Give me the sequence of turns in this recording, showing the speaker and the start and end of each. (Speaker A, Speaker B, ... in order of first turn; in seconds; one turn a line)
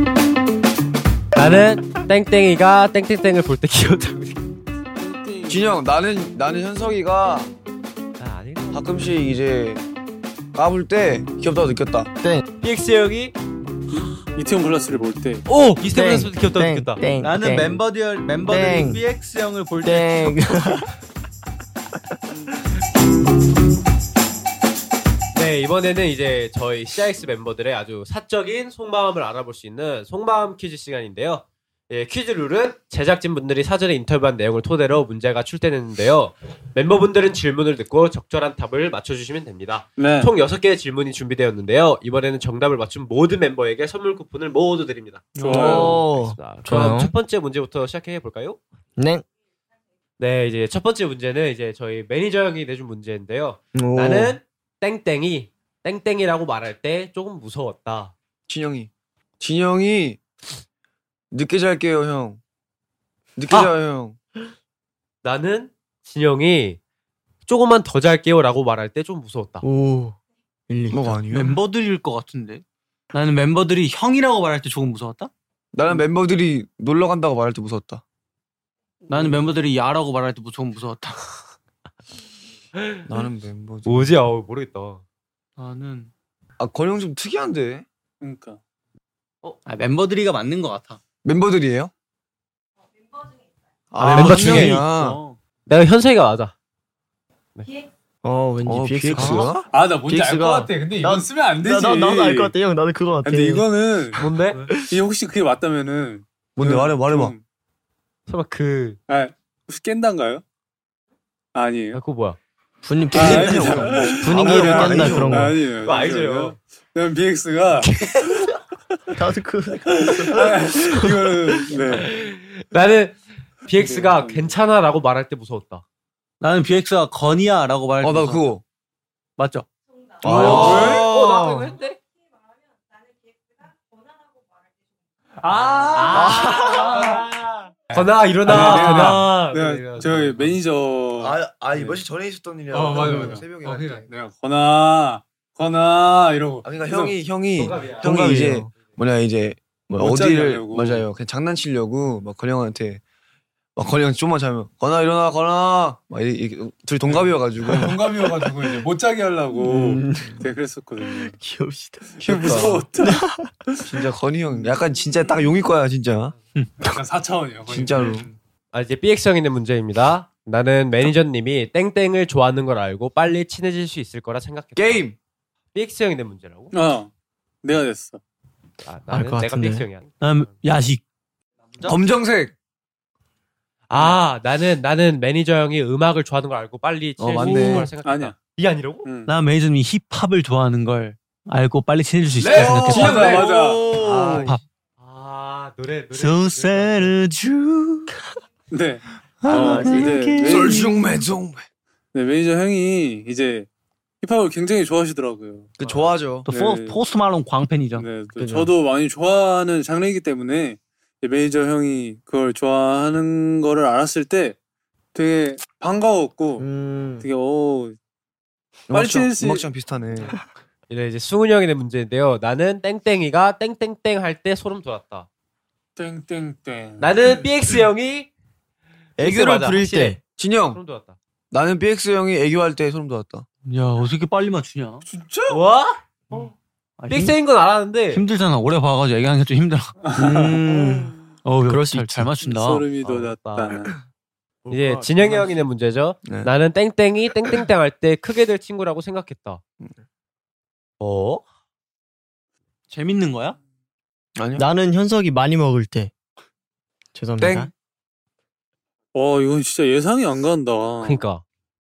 Speaker A: 1.4-4.6
Speaker B: 5.0-5.8
Speaker C: 5.5-7.5
Speaker A: 8.2-9.1
Speaker C: 8.7-9.8
Speaker C: 10.6-12.1
Speaker A: 12.6-13.4
Speaker B: 13.9-15.4
Speaker A: 15.5-17.1
Speaker D: 15.8-17.8
Speaker E: 17.2-20.4
Speaker D: 18.4-19.0
Speaker D: 19.8-20.9
Speaker A: 25.3-48.6
Speaker B: 40.0-40.3
Speaker B: 45.4-45.9
Speaker D: 45.5-47.1
Speaker D: 49.0-49.2
Speaker A: 50.2-58.1
Speaker D: 53.8-54.4
Speaker C: 58.5-60.2
Speaker C: 61.3-62.4
Speaker C: 63.4-64.2
Speaker A: 65.2-66.8
Speaker A: 67.5-69.6
Speaker D: 69.6-70.2
Speaker D: 70.7-71.2
Speaker C: 70.9-71.6
Speaker E: 71.3-75.3
Speaker C: 75.7-78.0
Speaker E: 79.1-81.3
Speaker C: 83.1-84.2
Speaker A: 83.8-85.0
Speaker E: 85.6-86.1
Speaker C: 86.6-87.8
Speaker B: 88.2-88.6
Speaker E: 89.4-91.0
Speaker C: 91.2-91.9
Speaker C: 93.9-95.2
Speaker E: 94.0-95.4
Speaker A: 94.2-94.8
Speaker A: 95.7-96.5
Speaker A: 97.5-97.8
Speaker D: 98.2-105.0
Speaker C: 98.7-99.7
Speaker B: 99.7-102.5
Speaker B: 103.2-104.2
Speaker A: 104.2-104.7
Speaker B: 104.9-107.4
Speaker C: 106.6-107.3
Speaker A: 108.3-109.0
Speaker B: 109.1-110.4
Speaker B: 111.5-112.0
Speaker A: 111.9-112.4
Speaker D: 112.8-115.6
Speaker B: 113.1-117.9
Speaker C: 113.2-115.1
Speaker A: 114.6-114.9
Speaker A: 115.8-116.6
Speaker A: 117.8-118.5
Speaker D: 119.1-121.2
Speaker B: 120.0-122.1
Speaker A: 121.8-125.8
Speaker B: 123.7-124.6
Speaker E: 126.4-128.5
Speaker C: 128.0-128.6
Speaker E: 129.4-129.7
Speaker C: 130.2-131.6
Speaker E: 130.2-131.0
Speaker A: 130.3-132.0
Speaker E: 135.5-136.7
Speaker A: 135.7-140.6
Speaker C: 136.1-136.5
Speaker B: 137.9-142.0
Speaker C: 138.5-139.0
Speaker C: 141.2-144.1
Speaker B: 142.7-147.2
Speaker C: 146.7-153.0
Speaker A: 147.6-148.9
Speaker D: 148.0-148.7
Speaker B: 150.0-151.1
Speaker C: 153.8-158.1
Speaker B: 157.1-161.2
Speaker E: 159.6-160.5
Speaker C: 160.1-160.5
Speaker D: 161.0-163.5
Speaker C: 162.2-162.9
Speaker B: 162.2-164.7
Speaker C: 163.9-166.4
Speaker E: 166.6-166.9
Speaker B: 166.9-168.4
Speaker C: 167.7-168.3
Speaker A: 168.7-175.1
Speaker C: 174.8-175.2
Speaker A: 175.7-176.8
Speaker B: 176.7-177.1
Speaker B: 177.6-178.2
Speaker A: 178.8-180.6
Speaker D: 179.1-179.9
Speaker E: 180.2-181.0
Speaker C: 181.8-182.5
Speaker A: 183.9-189.1
Speaker E: 187.2-187.9
Speaker C: 187.4-187.9
Speaker B: 188.0-188.3
Speaker B: 189.1-189.3
Speaker E: 189.3-193.4
Speaker C: 192.3-193.8
Speaker B: 192.5-193.8
Speaker D: 193.5-194.5
Speaker A: 194.0-197.2
Speaker E: 194.3-194.6
Speaker E: 196.1-198.2
Speaker B: 198.7-200.6
Speaker E: 199.4-200.9
Speaker C: 199.5-201.7
Speaker B: 202.1-203.7
Speaker B: 204.2-205.7
Speaker C: 205.8-206.5
Speaker A: 205.8-206.2
Speaker E: 206.4-208.1
Speaker B: 206.5-207.0
Speaker B: 208.0-214.6
Speaker D: 208.4-208.7
Speaker B: 215.1-216.7
Speaker D: 216.6-217.3
Speaker B: 217.2-218.0
Speaker C: 218.9-220.4
Speaker B: 218.9-219.7
Speaker A: 220.9-225.3
Speaker B: 226.0-227.4
Speaker A: 227.0-228.3
Speaker D: 229.2-230.2
Speaker A: 229.2-231.2
Speaker C: 230.4-230.8
Speaker C: 231.5-233.5
Speaker E: 233.7-235.1
Speaker B: 235.1-235.6
Speaker A: 235.5-236.0
Speaker E: 237.0-237.4
Speaker A: 237.1-238.2
Speaker E: 238.1-239.9
Speaker B: 240.0-240.9
Speaker D: 240.2-242.3
Speaker E: 241.4-242.9
Speaker B: 242.4-243.9
Speaker A: 243.0-243.9
Speaker D: 244.7-245.7
Speaker A: 244.7-249.6
Speaker C: 246.2-246.5
Speaker A: 251.0-251.4
Speaker E: 252.9-253.6
Speaker C: 254.4-254.7
Speaker D: 254.6-256.1
Speaker D: 257.1-257.7
Speaker C: 257.4-257.7
Speaker B: 259.1-261.2
Speaker A: 261.0-261.4